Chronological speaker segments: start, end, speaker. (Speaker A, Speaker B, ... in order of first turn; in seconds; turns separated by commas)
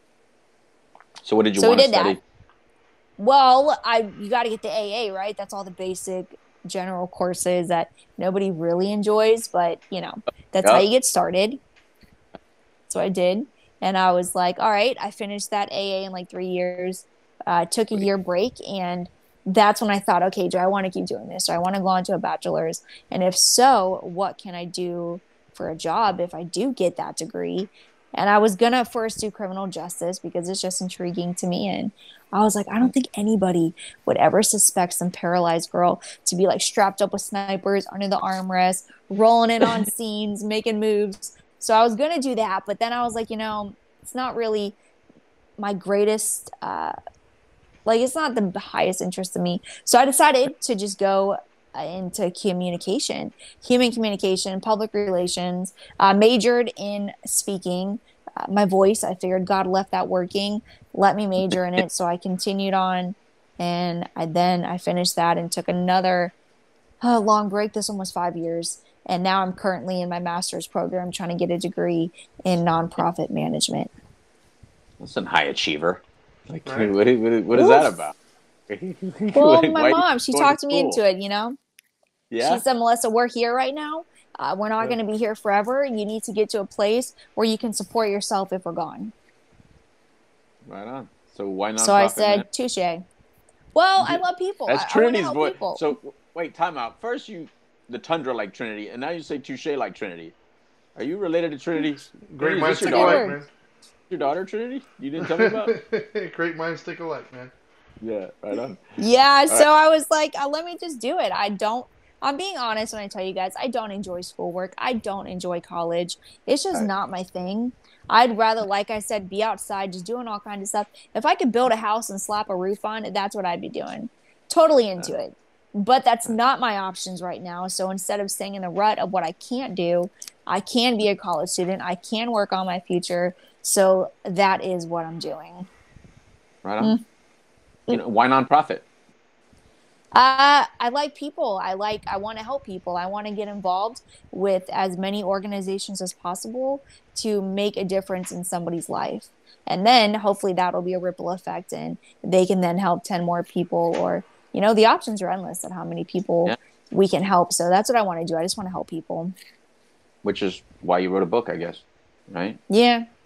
Speaker A: 1.2-2.2, Speaker B: 1.6-2.2, Speaker B: 3.2-11.6, Speaker B: 12.9-44.8, Speaker B: 45.6-46.9, Speaker B: 47.9-66.3, Speaker A: 61.5-61.8, Speaker B: 67.0-73.9, Speaker A: 75.0-78.1, Speaker C: 76.7-76.9, Speaker B: 77.5-78.0, Speaker A: 78.7-81.0, Speaker B: 79.3-81.6, Speaker A: 82.3-82.6, Speaker B: 82.4-89.1, Speaker A: 90.7-92.5, Speaker B: 91.8-93.0, Speaker B: 93.7-95.9, Speaker A: 94.0-100.3, Speaker A: 101.0-103.3, Speaker C: 102.3-103.5, Speaker B: 102.8-103.4, Speaker A: 104.1-105.7, Speaker C: 105.2-107.5, Speaker A: 108.0-108.8, Speaker B: 109.0-135.7, Speaker A: 136.6-137.0, Speaker A: 137.9-138.8, Speaker B: 140.1-159.3, Speaker A: 160.2-162.6, Speaker B: 162.7-163.1